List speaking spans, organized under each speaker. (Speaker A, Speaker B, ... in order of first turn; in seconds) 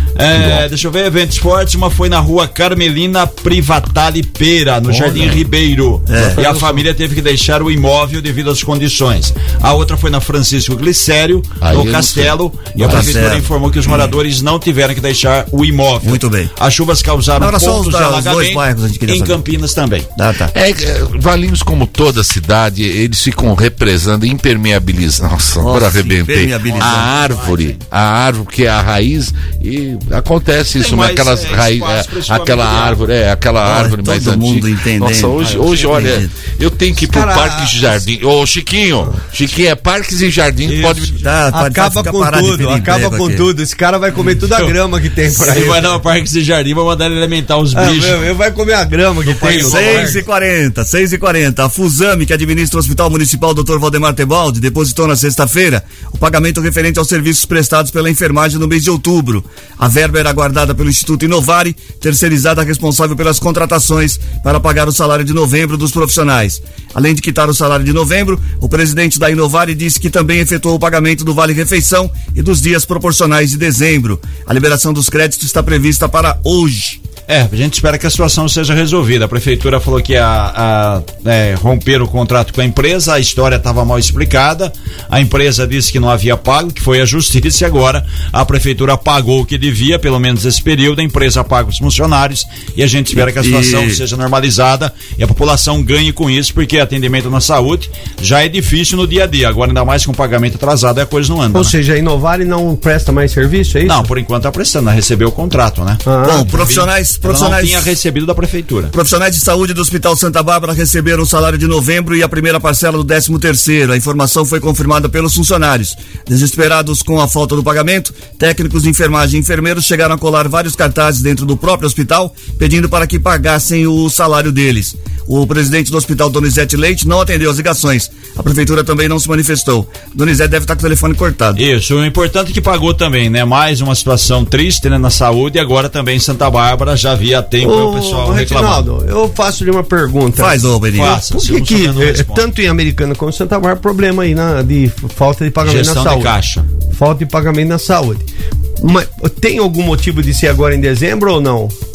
Speaker A: 0.2-20.1, 26.6-27.8, 30.8-33.2, 35.4-36.2, 40.6-41.3, 44.1-44.8, 45.3-48.3, 49.2-50.2, 77.3-101.8, 103.8-108.9, 131.6-138.9, 140.9-142.5, 145.6-146.7
Speaker B: 0.3-0.7, 4.9-5.4, 11.6-13.2, 20.5-41.2
Speaker C: 6.1-6.6, 12.8-13.5, 16.0-16.5, 17.4-19.4, 20.2-20.5, 25.6-27.1, 33.6-36.3, 41.2-43.5, 49.5-77.0, 93.2-94.0, 106.2-107.9, 108.9-131.6, 140.4-141.2
Speaker D: 37.0-38.0, 41.5-46.0, 47.7-50.2, 101.5-104.1, 106.0-106.5, 137.6-146.3, 146.9-148.3, 148.8-151.8